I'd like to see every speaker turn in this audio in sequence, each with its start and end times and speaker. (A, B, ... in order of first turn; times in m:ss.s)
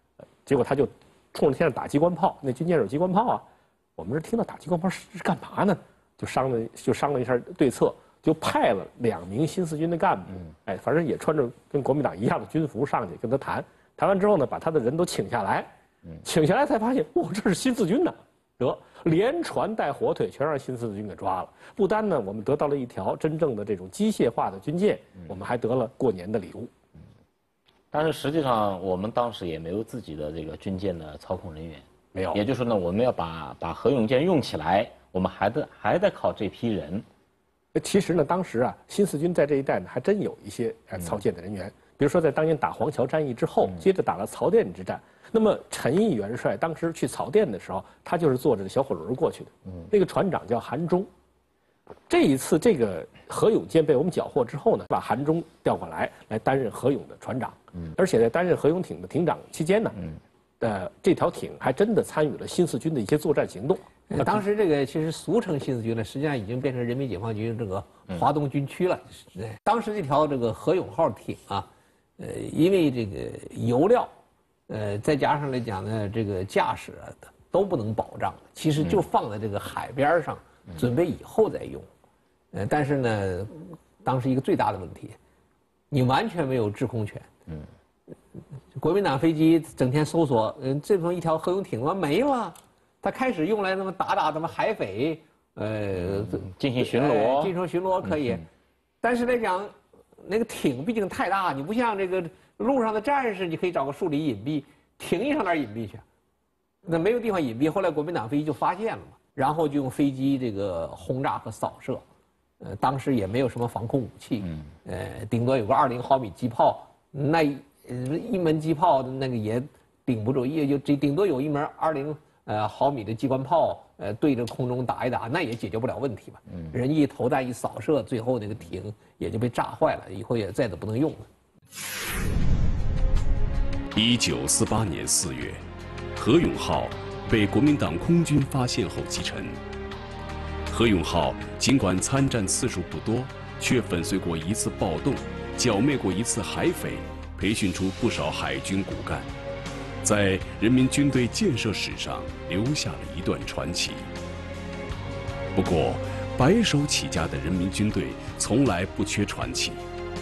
0:00.4-0:03.5 A
0:04.0-0:15.7 A
0:16.2-0:26.7 A
0:27.9-0:37.0 B
0:32.1-0:32.4 A
0:37.8-0:51.1 A
0:52.1-1:00.1 A
1:00.6-1:04.4 A
1:04.1-1:14.1 C
1:14.7-1:21.9 C
1:22.5-1:25.2 C
1:25.9-1:27.3 C
1:28.8-1:38.4 C
1:36.3-1:37.5 B
1:39.0-1:46.0 C
1:46.8-1:52.0 C
1:52.6-2:11.3 C
2:13.9-2:15.6 D
2:16.2-2:19.6 D
2:20.7-2:29.3 D
2:30.0-2:34.1 D
2:35.5-2:39.8 D